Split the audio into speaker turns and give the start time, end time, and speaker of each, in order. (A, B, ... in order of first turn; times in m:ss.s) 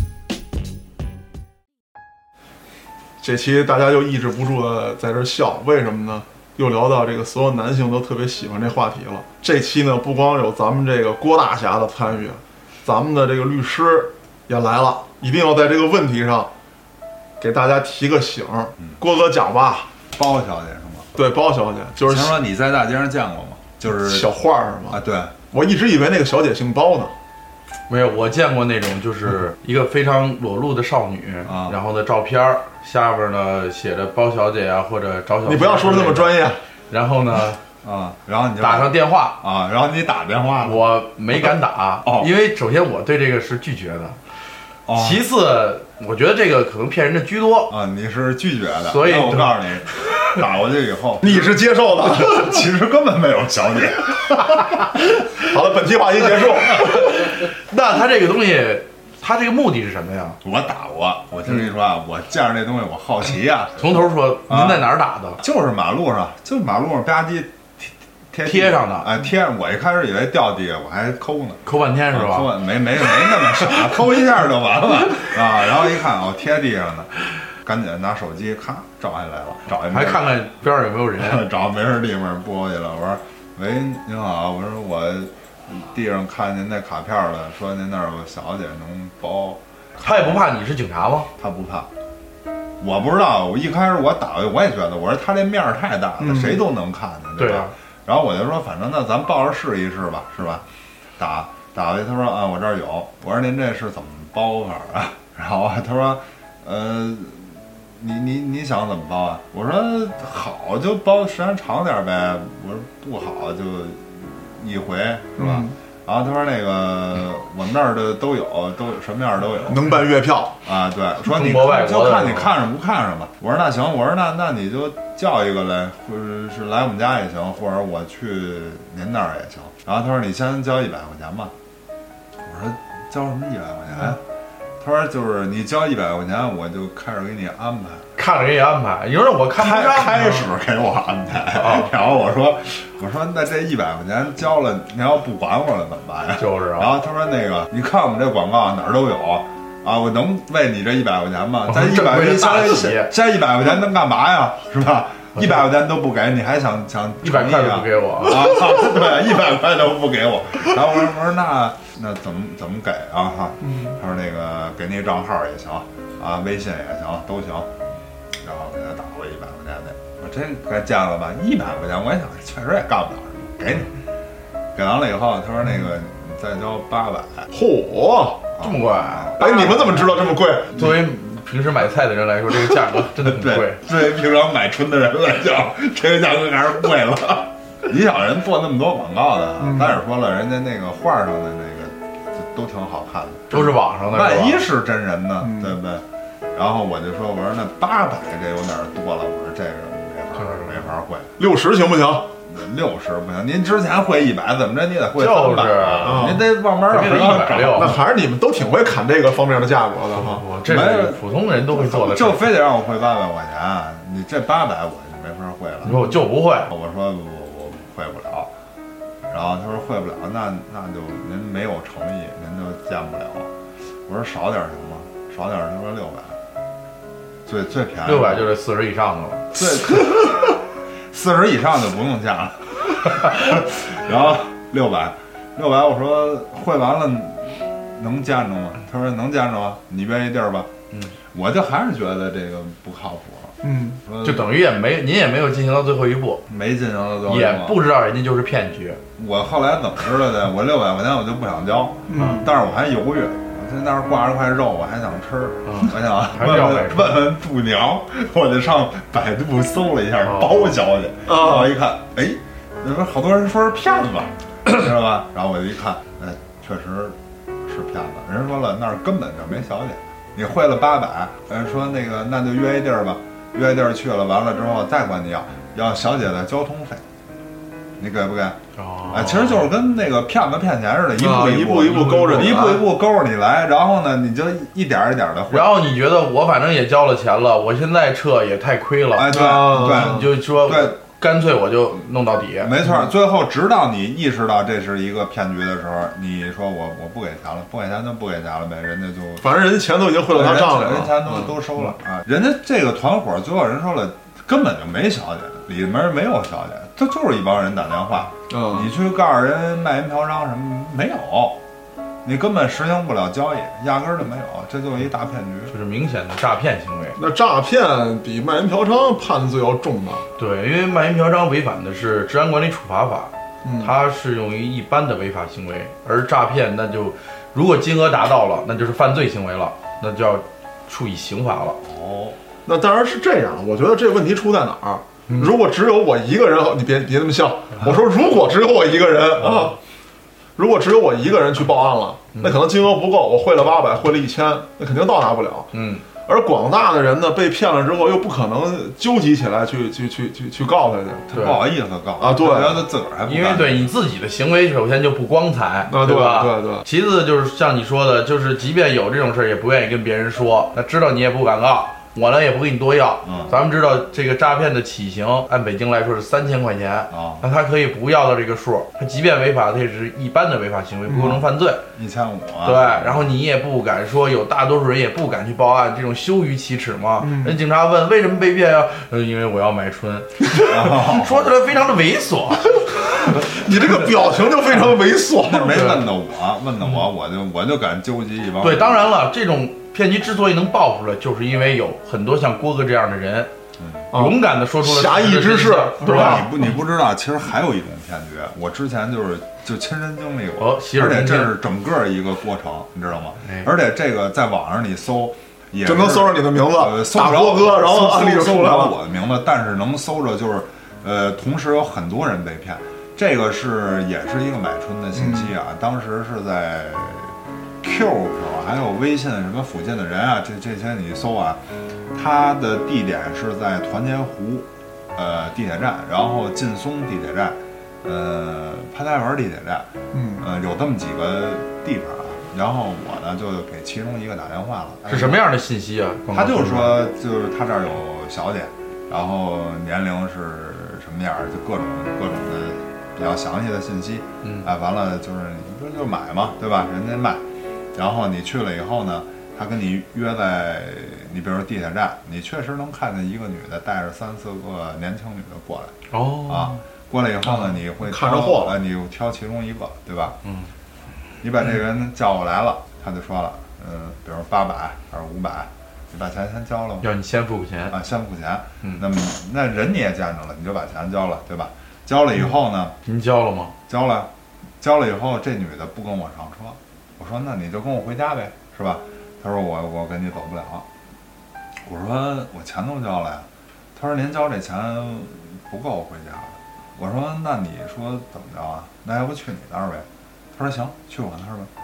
0:03.2-0:16.5 A
0:17.4-0:19.9 A
0:20.1-0:21.1 B
0:21.1-0:22.4 A
0:22.0-0:24.3 B
0:23.8-0:27.1 A
0:24.9-0:25.3 B
0:27.9-0:37.6 C
0:31.4-0:31.8 B
0:35.4-0:36.6 A
0:37.8-0:41.5 B
0:38.6-0:39.4 C
0:40.6-0:44.2 C
0:42.0-0:42.3 B
0:44.8-0:45.2 B
0:44.9-0:47.7 C
0:47.7-0:55.0 B
0:48.8-0:49.6 C
0:51.2-0:52.6 A
0:55.3-0:57.2 A
0:57.2-1:00.4 C
1:00.4-1:20.4 B
1:03.8-1:05.4 C
1:08.4-1:09.1 C
1:11.6-1:12.5 C
1:19.9-1:21.4 C
1:21.2-1:30.4 B
1:30.0-1:31.3 C
1:31.4-1:31.9 B
1:32.8-1:40.6 B
1:36.2-1:36.6 A
1:37.4-1:37.7 C
1:41.2-1:59.8 B
1:55.4-1:55.7 A
1:59.7-2:00.6 A
2:00.6-2:11.5 B
2:01.3-2:02.5 C
2:12.4-2:14.2 B
2:14.8-2:18.0 B
2:18.2-2:20.5 C
2:19.5-2:47.7 B
2:21.5-2:21.9 C
2:26.4-2:26.9 C
2:31.6-2:33.1 C
2:37.2-2:38.5 C
2:48.4-2:54.0 B
2:54.7-2:57.5 B
2:57.5-2:58.5 A
2:58.6-2:59.9 B
2:58.6-3:03.8 C
2:59.4-3:00.9 A
3:03.2-3:21.3 B
3:09.6-3:10.0 A
3:13.5-3:14.7 C
3:15.4-3:15.8 A
3:20.4-3:20.8 C
3:21.4-3:22.3 A
3:22.5-3:27.9 B
3:25.2-3:26.4 C
3:26.0-3:26.5 A
3:26.9-3:28.0 C
3:27.7-3:30.4 A
3:30.1-3:32.5 C
3:30.6-3:38.5 B
3:35.8-3:36.7 C
3:39.3-3:43.5 B
3:44.1-3:46.4 B
3:47.4-3:48.5 B
3:48.0-3:49.4 C
3:49.5-4:00.7 B
4:01.3-4:04.5 B
4:03.6-4:04.0 A
4:04.2-4:06.4 C
4:06.5-4:07.8 B
4:07.2-4:09.0 C
4:09.2-4:37.0 B
4:12.1-4:12.5 A
4:15.6-4:17.2 C
4:20.2-4:20.8 C
4:21.2-4:21.7 A
4:38.0-4:38.6 B
4:38.8-4:39.7 C
4:39.1-4:45.7 B
4:41.1-4:42.8 A
4:41.8-4:42.7 C
4:45.5-4:49.3 C
4:49.1-4:51.0 B
4:49.3-4:50.3 A
4:49.8-4:52.7 C
4:52.6-4:59.5 B
4:59.4-5:01.9 A
5:00.3-5:11.6 B
5:08.5-5:08.9 A
5:12.2-5:15.7 B
5:15.7-5:17.2 C
5:17.2-5:20.2 A
5:20.4-5:31.8 C
5:23.6-5:23.9 A
5:31.8-5:32.4 B
5:32.6-5:39.8 A
5:35.3-5:35.5 C
5:40.6-5:45.7 A
5:45.7-5:46.0 C
5:46.2-5:51.2 A
5:51.3-5:53.9 B
5:51.3-5:51.7 C
5:52.2-5:52.8 A
5:53.2-6:11.8 C
5:55.9-5:56.8 A
6:03.2-6:03.6 B
6:07.1-6:07.4 B
6:11.1-6:11.4 A
6:11.9-6:13.2 B
6:12.6-6:23.3 C
6:17.2-6:17.6 A
6:20.6-6:21.5 B
6:23.2-6:25.9 A
6:25.4-6:29.1 B
6:25.7-6:26.0 C
6:28.6-6:33.5 C
6:33.8-6:34.1 B
6:34.1-6:36.5 A
6:34.1-6:36.6 C
6:36.0-7:15.4 B
6:40.6-6:41.6 C
6:43.4-6:43.7 C
6:45.8-6:48.9 A
6:55.1-6:55.5 A
7:10.1-7:10.4 A
7:15.1-7:17.0 C
7:16.3-7:27.4 B
7:24.4-7:24.7 C
7:27.9-7:35.9 B
7:36.1-7:36.8 C
7:36.5-7:40.4 B
7:37.4-7:38.8 A
7:40.4-7:40.7 C
7:41.4-7:47.1 B
7:47.0-7:48.0 C
7:47.9-7:52.9 B
7:53.0-7:53.7 C
7:53.9-7:54.3 B
7:54.8-8:00.8 B
8:01.8-8:11.7 B